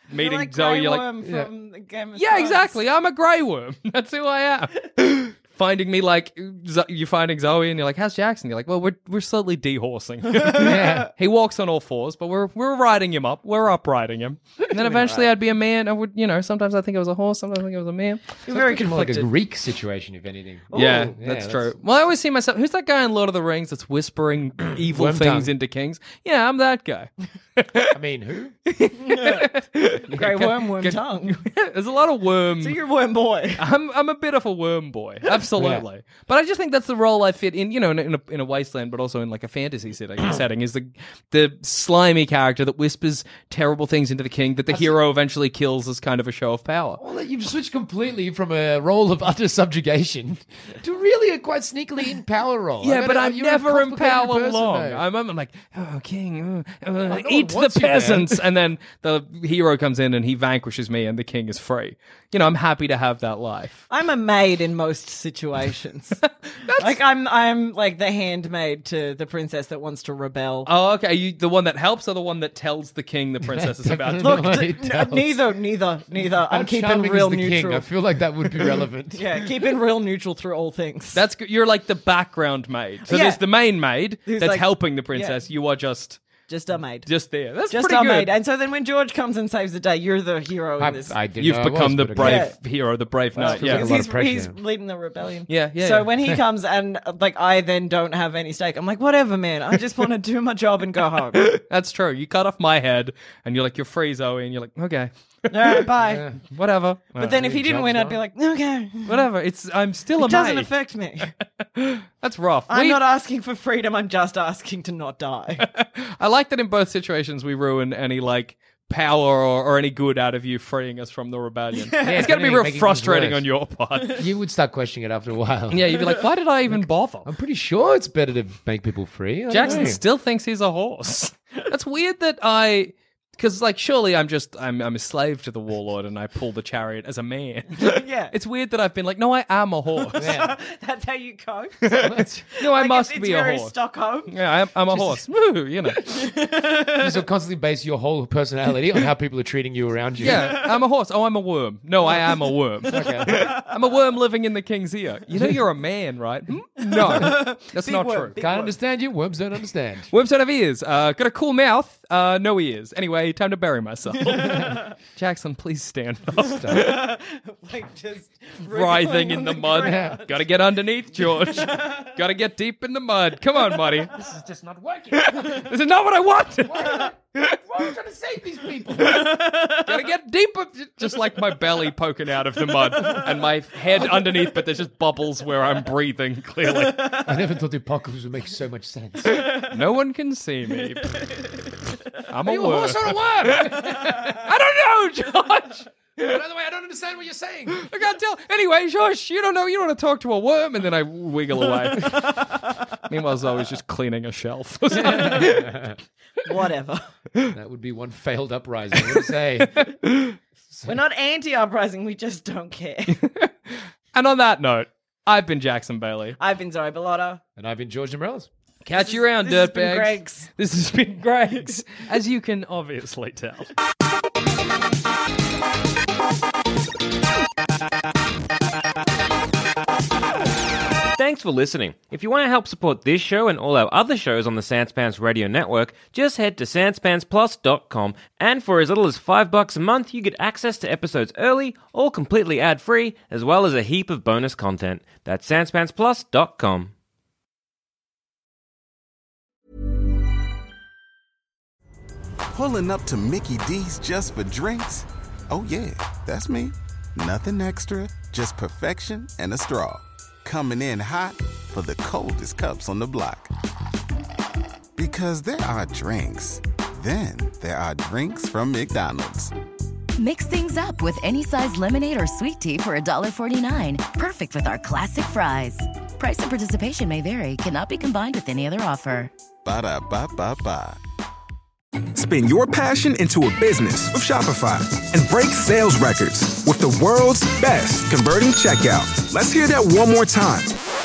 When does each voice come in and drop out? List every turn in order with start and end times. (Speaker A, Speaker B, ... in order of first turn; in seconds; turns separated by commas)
Speaker A: 0.1-1.1, Speaker B: 0.2-2.8, Speaker C: 1.2-1.5, Speaker A: 2.1-18.4, Speaker C: 10.5-11.1, Speaker B: 14.8-15.3, Speaker C: 18.5-21.7, Speaker B: 18.5-19.3, Speaker B: 20.7-21.1, Speaker A: 20.7-27.9, Speaker C: 24.9-25.5, Speaker C: 27.9-28.6, Speaker A: 28.7-30.1, Speaker B: 29.0-29.5, Speaker C: 30.1-30.7, Speaker B: 30.1-31.4, Speaker A: 30.8-32.8, Speaker B: 32.6-33.6, Speaker A: 33.6-47.0, Speaker C: 35.5-35.9, Speaker C: 44.7-45.0, Speaker C: 47.0-55.0, Speaker A: 52.8-63.9, Speaker C: 57.0-58.4, Speaker B: 63.9-66.2, Speaker A: 66.7-67.0, Speaker B: 66.7-70.7, Speaker A: 70.7-74.6, Speaker C: 73.4-75.4, Speaker B: 74.2-77.9, Speaker C: 76.3-79.2, Speaker B: 79.1-81.2, Speaker A: 81.2-86.2, Speaker B: 83.1-83.4, Speaker B: 84.3-85.4, Speaker B: 86.5-87.1, Speaker A: 87.0-88.3, Speaker B: 87.7-91.2, Speaker C: 90.8-92.5, Speaker A: 91.4-93.9, Speaker B: 92.2-92.5, Speaker C: 93.4-94.5, Speaker B: 93.4-101.5, Speaker A: 95.5-96.1, Speaker A: 101.4-105.9, Speaker B: 105.5-106.2, Speaker C: 106.0-106.5, Speaker A: 106.5-107.4, Speaker C: 107.2-108.2, Speaker B: 107.2-109.2, Speaker A: 109.1-110.7, Speaker B: 110.2-111.3, Speaker A: 111.6-113.0, Speaker B: 112.7-115.7, Speaker A: 115.6-124.2, Speaker B: 121.8-122.3, Speaker C: 122.0-123.5, Speaker C: 124.2-130.0, Speaker A: 125.7-127.3, Speaker A: 129.5-140.3, Speaker B: 129.6-129.9, Speaker B: 137.8-138.3, Speaker B: 140.1-144.3, Speaker C: 140.2-140.6, Speaker A: 141.8-143.7, Speaker C: 142.0-142.3, Speaker A: 144.3-146.1, Speaker B: 144.9-145.2, Speaker B: 146.1-147.1, Speaker C: 147.0-150.6, Speaker A: 150.2-158.3, Speaker B: 150.2-150.7, Speaker B: 152.1-152.5, Speaker C: 152.9-153.5, Speaker B: 153.3-153.7, Speaker B: 156.8-158.8, Speaker C: 158.4-160.1, Speaker A: 160.1-167.1, Speaker C: 164.3-164.8, Speaker B: 164.3-164.9, Speaker C: 166.3-166.9, Speaker B: 166.7-170.5, Speaker A: 168.7-174.1, Speaker C: 169.7-170.2, Speaker B: 171.2-172.2, Speaker C: 174.1-175.7, Speaker A: 175.1-177.6, Speaker C: 176.6-179.4, Speaker B: 179.0-179.9, Speaker A: 179.3-187.3, Speaker C: 184.0-184.4, Speaker B: 186.8-187.2, Speaker C: 187.2-189.5, Speaker B: 189.4-189.7, Speaker A: 189.4-191.3, Speaker B: 191.1-191.7, Speaker A: 192.3-196.4, Speaker C: 192.4-194.5, Speaker C: 196.2-197.9, Speaker A: 197.7-205.9, Speaker C: 204.9-206.0, Speaker B: 206.4-207.1, Speaker C: 207.5-209.8, Speaker A: 209.0-210.4, Speaker C: 210.7-211.0, Speaker B: 210.9-213.2, Speaker A: 213.1-213.5, Speaker A: 214.1-216.4, Speaker B: 216.4-217.4, Speaker C: 217.6-218.5, Speaker A: 218.8-223.7, Speaker B: 218.9-220.5, Speaker D: 231.2-246.9, Speaker E: 252.5-263.5, Speaker E: 265.0-269.5, Speaker F: 270.2-279.3, Speaker E: 279.6-281.0, Speaker G: 282.1-290.8